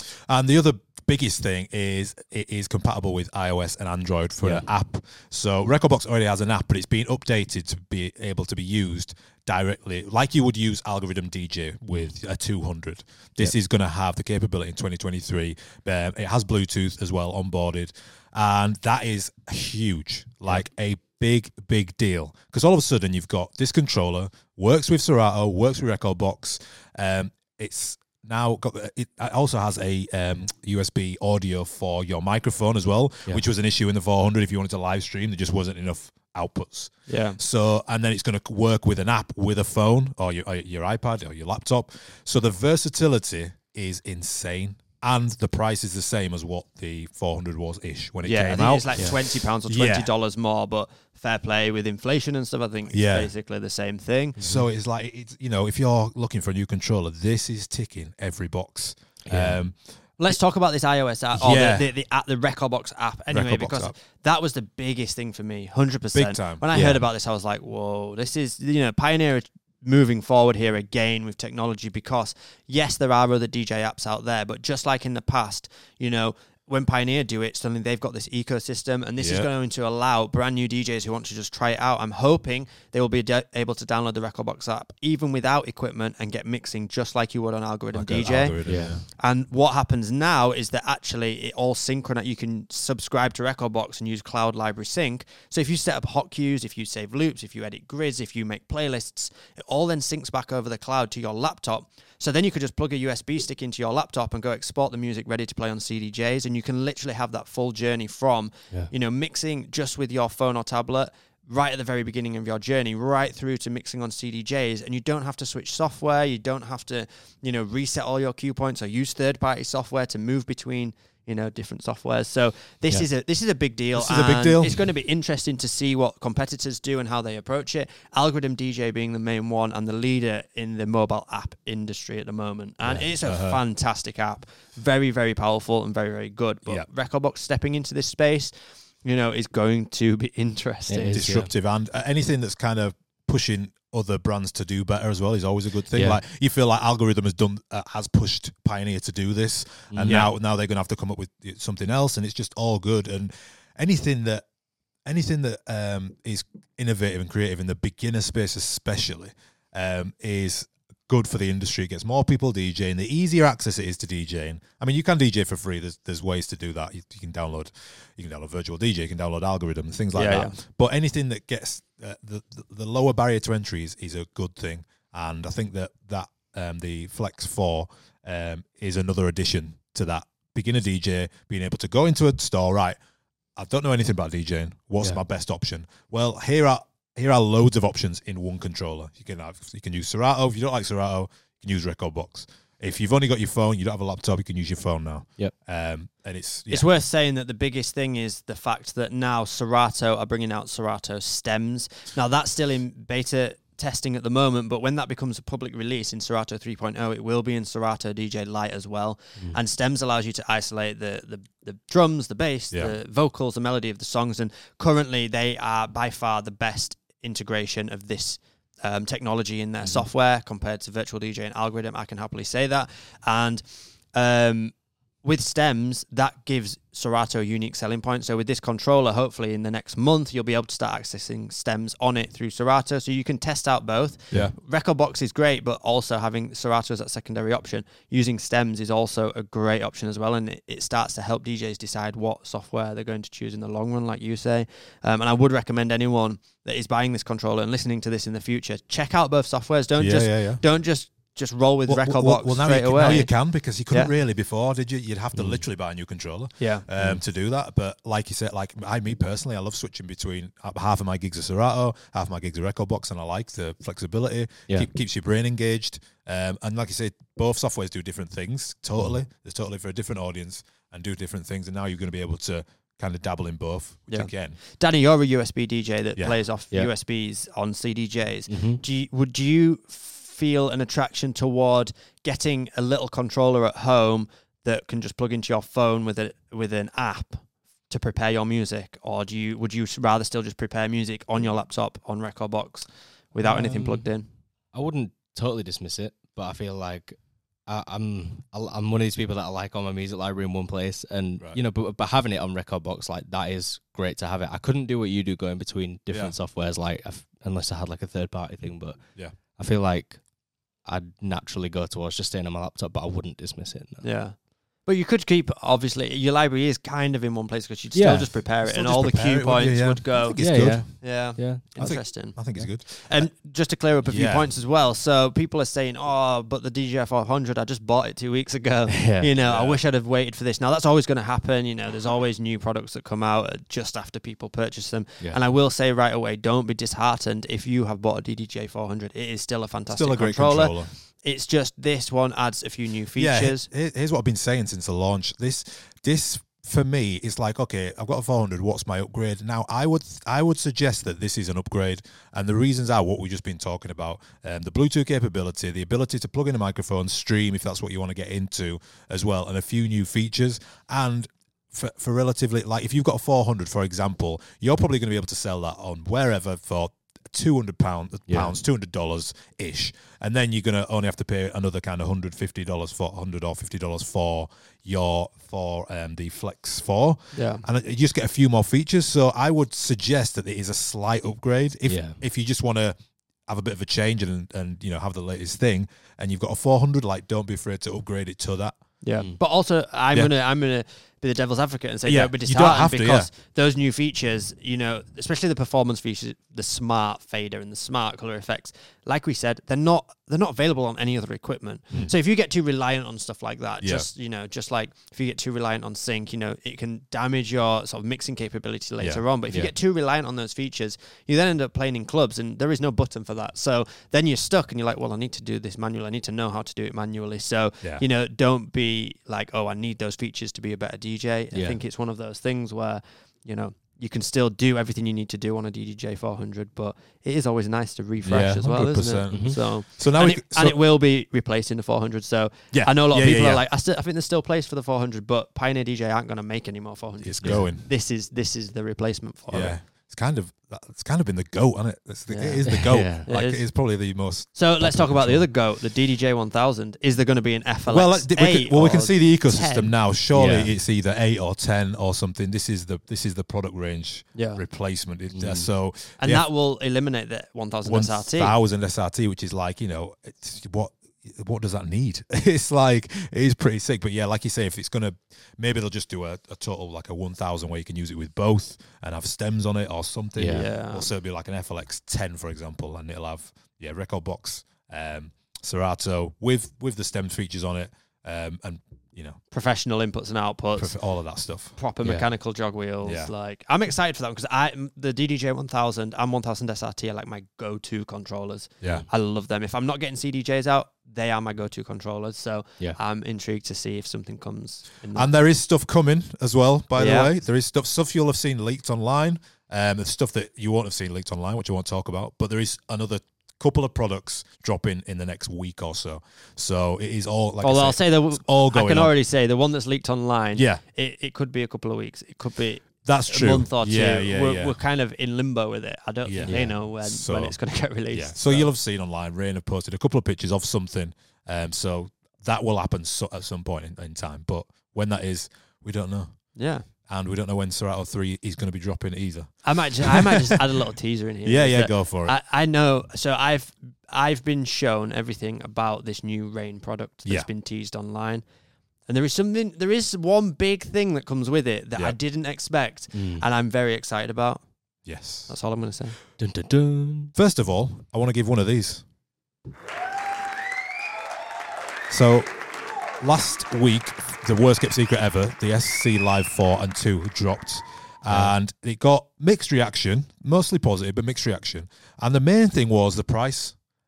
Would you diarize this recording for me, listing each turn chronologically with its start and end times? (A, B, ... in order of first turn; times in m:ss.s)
0:00.3-0:50.1 A
0:04.4-0:04.6 B
0:37.1-0:37.4 C
0:48.2-0:54.4 C
0:52.9-0:53.3 A
0:54.4-0:54.6 B
0:54.4-0:59.7 A
0:59.2-0:59.6 B
1:00.2-2:18.5 C
1:01.3-1:01.9 A
1:03.3-1:03.9 A
1:06.1-1:06.6 A
1:06.7-1:07.0 B
1:19.2-1:19.5 A
1:27.9-1:29.0 A
1:28.6-1:29.0 B
2:03.9-2:04.8 A
2:13.2-2:13.6 A
2:19.0-2:21.2 C
2:20.9-2:21.5 B
2:21.1-2:34.4 A
2:25.9-2:26.2 B
2:29.9-2:30.3 B
2:35.0-3:03.0 A
2:50.1-2:50.5 C
3:03.6-3:16.9 A
3:16.7-3:44.7 C
3:45.2-4:13.3 C
4:10.0-4:10.6 A
4:11.9-4:34.6 A
4:15.3-4:15.6 B
4:16.6-4:16.8 C
4:34.1-4:54.3 C
4:38.5-4:38.8 B
4:53.4-4:54.0 B
4:54.7-5:09.0 B
5:09.6-5:10.2 B
5:10.8-5:14.0 B
5:14.0-5:43.7 C
5:17.9-5:18.3 B
5:18.6-5:20.9 A
5:20.4-5:21.6 B
5:21.8-5:23.3 A
5:24.0-5:24.5 A
5:28.9-5:29.3 B
5:29.4-5:29.8 A
5:39.9-5:40.9 A
5:43.2-6:22.9 A
6:08.3-6:08.5 B
6:17.3-6:17.6 C
6:21.9-6:22.2 B
6:23.5-6:28.8 A
6:29.0-7:19.8 C
6:32.0-6:33.3 A
6:43.8-6:44.1 A
7:01.5-7:01.8 B
7:08.2-7:10.8 A
7:09.3-7:09.6 B
7:12.7-7:13.6 A
7:17.2-7:17.9 A
7:19.5-7:25.5 A
7:22.3-7:23.6 C
7:22.6-7:23.3 B
7:24.5-7:29.9 C
7:27.9-7:36.4 A
7:30.3-7:30.7 B
7:34.3-7:34.6 C
7:35.3-7:35.7 B
7:36.2-7:38.5 C
7:37.8-7:59.4 A
7:50.4-7:50.6 B
7:50.5-7:51.1 C
7:59.5-8:00.9 C
8:00.8-8:01.7 A
8:01.8-8:15.3 C
8:03.0-8:03.3 A
8:08.8-8:09.0 A
8:15.1-8:29.1 A
8:17.0-8:17.3 C
8:27.6-8:38.7 C
8:30.5-8:30.8 A
8:33.0-8:34.8 A
8:36.2-8:37.6 A
8:36.4-8:36.7 B
8:38.1-8:46.3 A
8:46.5-8:46.8 C
8:47.0-8:50.6 A
8:49.6-8:58.4 C
8:51.4-8:52.4 A
8:59.1-9:04.6 C
9:03.1-9:03.4 B
9:05.0-9:05.5 A
9:05.5-9:06.2 C
9:06.4-9:07.3 B
9:07.3-9:09.0 A
9:12.1-9:12.5 A
9:13.2-9:23.7 A
9:18.3-9:18.5 B